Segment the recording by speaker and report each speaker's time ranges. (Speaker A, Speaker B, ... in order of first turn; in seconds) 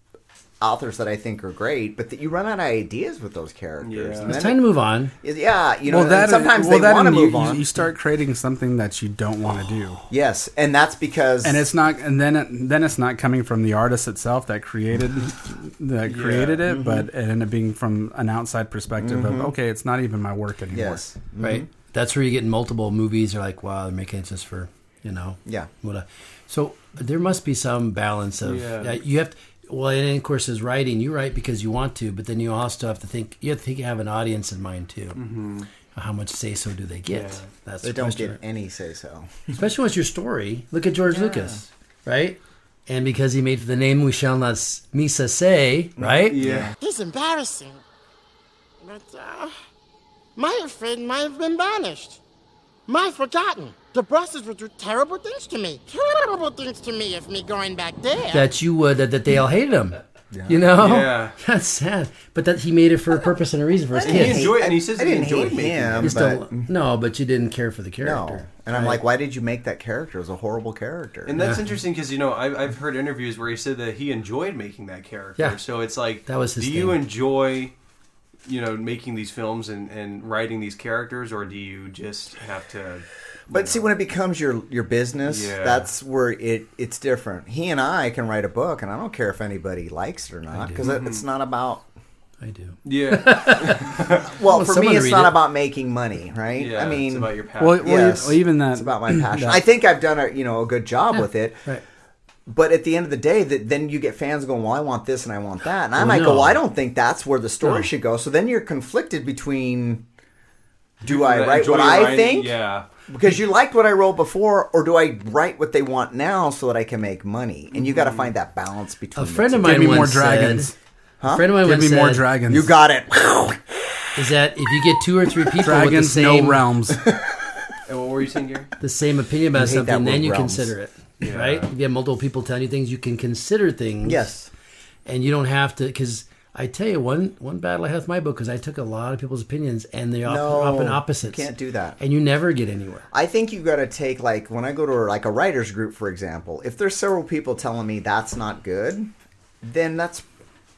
Speaker A: 0.6-7.7, 10.1-11.7, 16.7-17.1, 19.0-19.5, 20.7-21.7, 25.4-25.7, 37.8-39.6, 41.1-41.6, 46.0-46.8, 60.3-60.7, 63.9-66.7, 68.0-71.4, 83.5-91.9, 94.3-101.6, 102.5-110.1, 111.0-112.6, 113.1-120.0, 121.2-121.6, 122.5-123.8, 129.5-130.7, 134.0-134.5, 140.2-142.0, 143.1-149.1, 149.6-150.3
Speaker B: 3.8-4.3, 16.1-16.6, 28.4-29.0, 35.2-35.7, 37.1-37.5, 46.3-46.7, 60.8-61.4, 64.0-66.2, 71.3-77.7, 78.4-83.9, 85.2-85.9, 90.8-91.2, 92.8-94.3, 96.5-98.4, 111.0-112.9, 117.8-118.3, 127.9-128.7, 131.2-131.7
Speaker C: 4.2-5.1, 21.4-35.2, 35.9-38.4, 39.5-46.4, 58.3-64.5, 66.0-69.0, 71.4-71.6, 76.3-77.0, 90.5-90.8, 92.4-95.4, 106.0-106.6, 107.6-107.9, 119.2-120.7, 121.3-122.3, 124.2-126.7, 128.8-134.3, 135.1-143.1
Speaker D: 5.9-10.0, 11.4-21.0, 97.6-99.6, 119.6-120.8, 121.6-122.7, 125.6-127.0
Speaker E: 46.8-47.8, 48.8-49.5, 50.4-52.2, 52.9-58.5